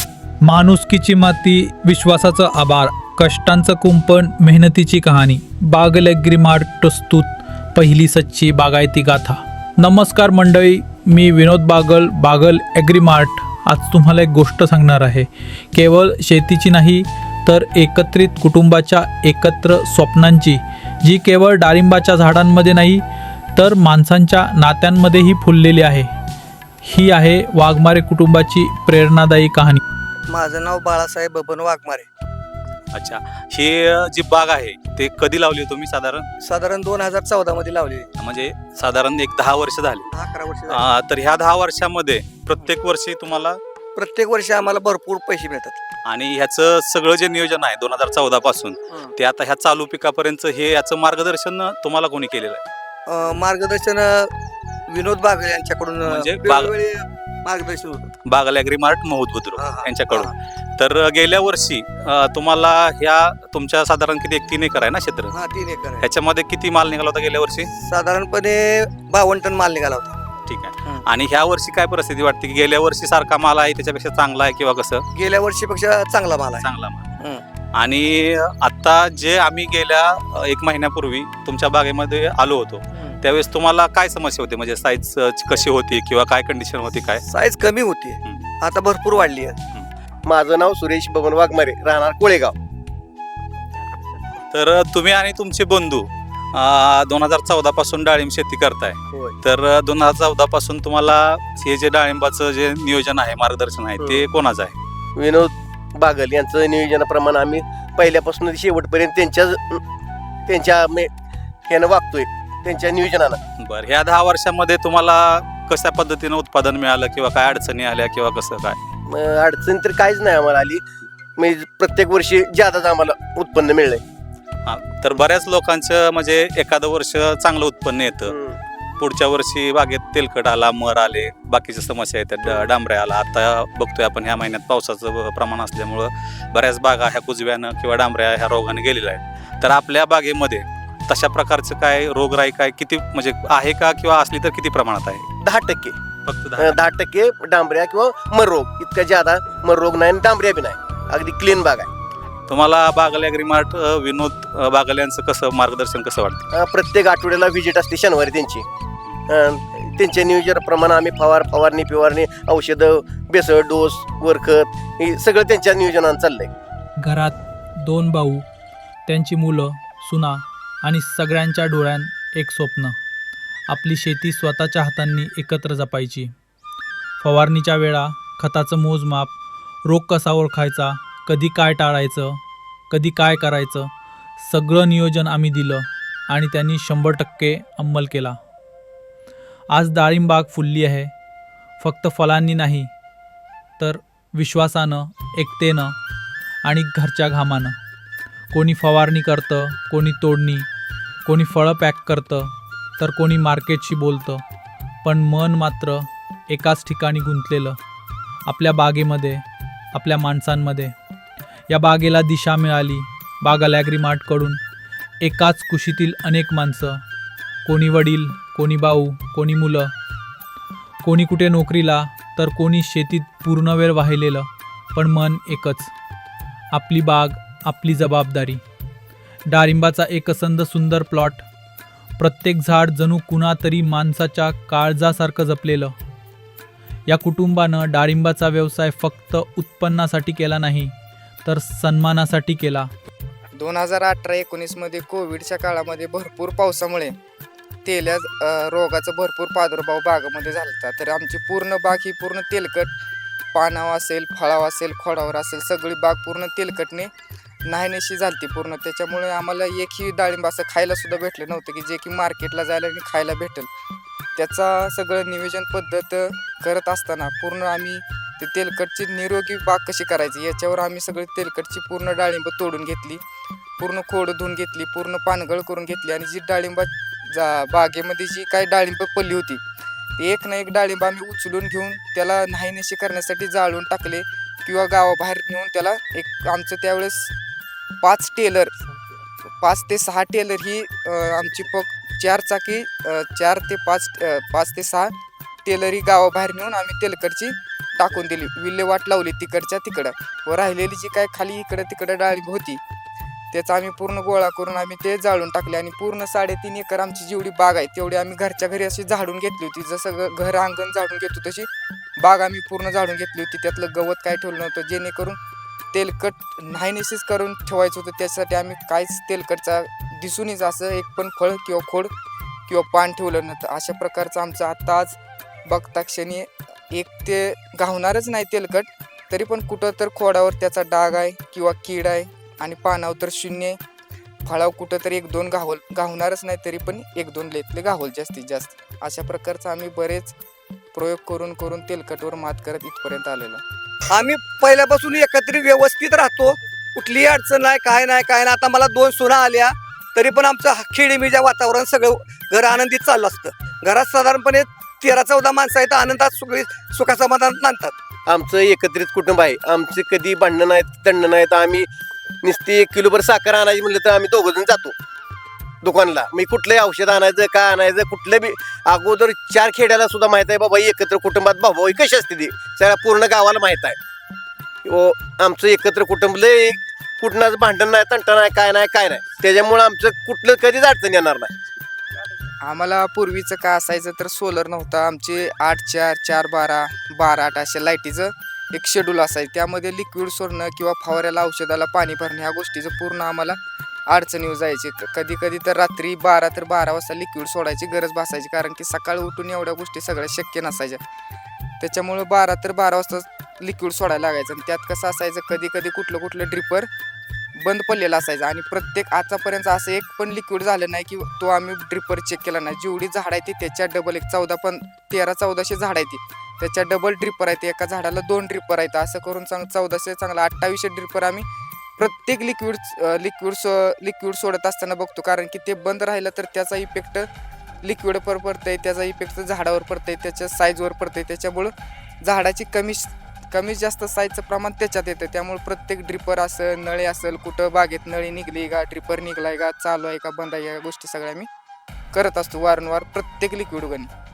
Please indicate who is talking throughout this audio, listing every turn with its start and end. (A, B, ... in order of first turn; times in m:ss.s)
0:00.4-0:23.0 A
0:23.6-0:26.1 A
0:26.8-0:29.8 A
0:30.3-0:32.1 B
0:32.9-0:36.3 C
0:36.4-0:38.1 B
0:38.2-0:40.1 C
0:40.1-0:40.8 B
0:40.7-0:43.6 C
0:44.0-0:45.8 B
0:46.0-0:52.6 C
0:53.1-0:54.3 B
0:54.9-0:58.1 B
0:56.0-0:56.8 C
0:58.2-1:05.4 C
0:59.6-1:00.3 B
1:05.3-1:06.1 B
1:06.0-1:07.7 C
1:07.8-1:10.2 B
1:10.5-1:15.0 C
1:15.1-1:17.4 B
1:16.6-1:17.1 C
1:17.8-1:27.2 C
1:22.9-1:23.2 B
1:27.3-1:29.6 B
1:28.2-1:28.5 C
1:30.2-1:32.6 D
1:34.5-1:44.8 C
1:44.0-1:44.2 D
1:45.2-1:49.8 D
1:50.5-1:51.1 D
1:51.7-1:53.4 D
1:53.6-1:58.8 C
1:59.1-2:00.8 D
2:01.4-2:04.0 D
2:04.7-2:08.4 C
2:08.3-2:08.6 D
2:09.0-2:25.3 C
2:25.4-2:26.0 D
2:26.2-2:26.8 C
2:26.6-2:31.9 D
2:32.5-2:36.4 C
2:36.5-2:38.6 D
2:39.3-2:46.5 D
2:47.0-2:48.5 A
2:49.1-2:53.0 A
2:53.7-2:56.3 A
2:57.2-3:08.4 A
3:09.7-3:11.1 A
3:11.8-3:12.9 A
3:13.8-3:15.9 A
3:16.6-3:17.8 A
3:18.5-3:20.7 A
3:21.2-3:24.4 A
3:25.0-3:27.8 A
3:28.5-3:30.9 A
3:31.7-3:34.6 A
3:35.2-3:37.0 A
3:37.6-3:39.9 A
3:41.0-3:45.9 A
3:46.7-3:48.6 A
3:49.5-3:51.5 A
3:52.2-3:56.0 A
3:57.1-4:00.9 A
4:01.4-4:02.9 A
4:03.6-4:07.2 E
4:07.8-4:13.0 E
4:13.5-4:17.1 E
4:17.6-4:23.7 E
4:24.4-4:33.2 E
4:33.8-4:39.6 E
4:40.2-4:47.3 E
4:48.0-4:48.9 E
4:49.5-4:55.1 E
4:55.6-5:02.8 E
5:03.5-5:15.4 E
5:15.9-5:22.1 E
5:22.7-5:33.8 E
5:34.4-5:40.4 E
5:40.9-5:43.6 E
5:44.1-5:58.0 B
5:58.3-6:01.9 D
6:02.4-6:05.0 D
6:05.8-6:14.0 D
6:14.8-6:21.7 D
6:22.6-6:41.0 E
6:41.8-6:46.9 E
6:47.6-7:01.5 E
7:02.0-7:07.3 E
7:07.8-7:21.5 E
7:22.1-7:24.1 E